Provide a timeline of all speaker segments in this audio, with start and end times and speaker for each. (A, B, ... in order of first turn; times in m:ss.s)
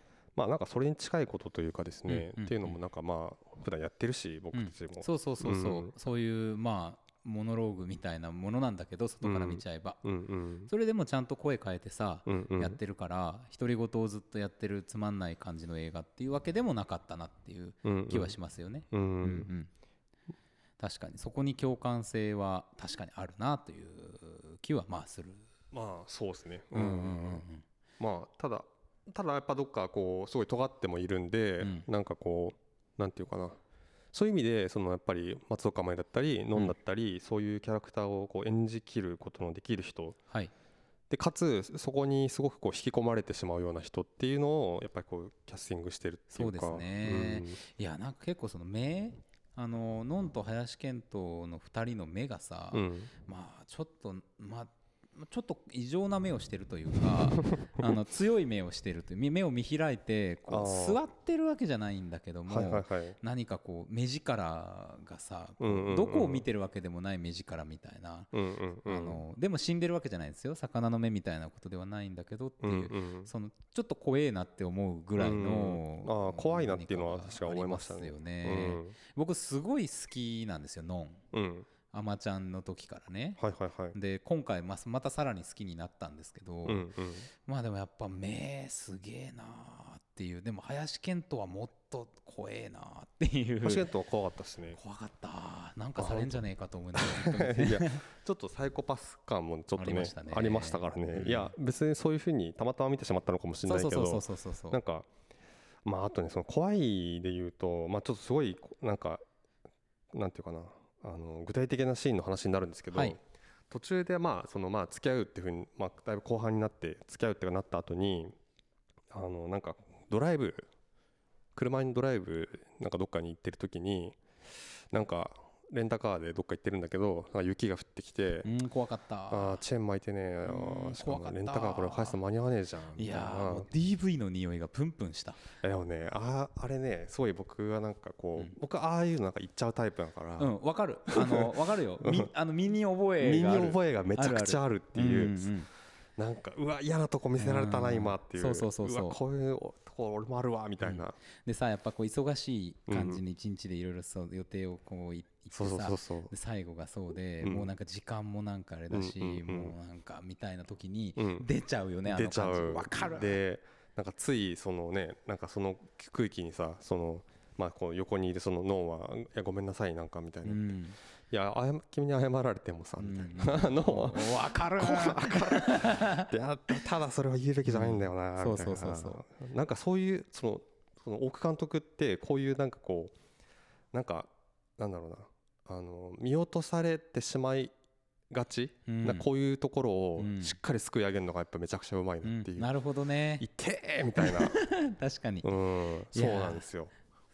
0:00.4-0:05.9 A
0:02.1-0:02.8 B
0:04.5-0:10.0 B
0:09.2-0:10.7 A
0:10.7-0:19.7 B
0:12.2-0:12.8 A
0:17.8-0:18.3 A
0:18.9-0:19.5 A
0:20.8-0:25.4 B
0:25.7-0:27.4 A
0:26.7-0:27.6 B
0:28.0-0:33.6 A
0:31.6-0:31.9 B
0:34.1-0:40.2 A
0:41.1-0:47.6 A
0:46.3-1:08.3 B
0:52.7-0:53.1 A
0:57.4-0:58.0 A
1:00.5-1:01.0 A
1:02.5-1:03.2 A
1:05.6-1:06.4 A
1:08.3-1:09.2 A
1:08.8-1:21.2 B
1:12.6-1:13.3 A
1:15.2-1:19.0 A
1:21.3-1:21.7 A
1:21.9-1:23.4 B
1:23.4-1:24.0 A
1:23.9-1:26.9 B
1:26.6-1:27.3 A
1:27.4-1:33.9 B
1:33.6-1:34.8 A
1:34.7-1:38.0 B
1:36.0-1:36.4 A
1:36.9-1:45.1 A
1:39.8-1:41.5 B
1:43.6-1:44.8 B
1:45.8-1:49.2 A
1:50.1-1:53.2 A
1:53.7-1:58.3 A
1:59.1-2:00.7 A
2:01.5-2:04.2 A
2:04.9-2:08.5 A
2:08.4-2:09.6 B
2:09.3-2:13.7 A
2:10.4-2:12.2 B
2:13.0-2:15.4 B
2:15.6-2:20.5 A
2:20.4-2:25.7 B
2:21.1-2:21.5 A
2:22.0-2:22.3 A
2:23.2-2:25.5 A
2:26.2-2:31.2 A
2:27.4-2:29.2 B
2:30.8-2:43.4 B
2:32.9-2:33.2 A
2:35.5-2:36.3 A
2:37.4-2:37.7 A
2:38.9-2:39.7 A
2:41.2-2:41.5 A
2:42.0-2:50.7 A
2:50.4-2:51.0 B
2:51.3-3:03.1 A
2:53.0-2:56.3 B
2:57.6-2:59.2 B
3:03.9-3:07.7 A
3:08.3-3:12.7 A
3:08.8-3:09.3 B
3:10.2-3:10.6 B
3:12.2-3:13.4 B
3:13.4-3:14.6 A
3:14.2-3:15.5 B
3:15.4-3:16.9 A
3:16.1-3:16.6 B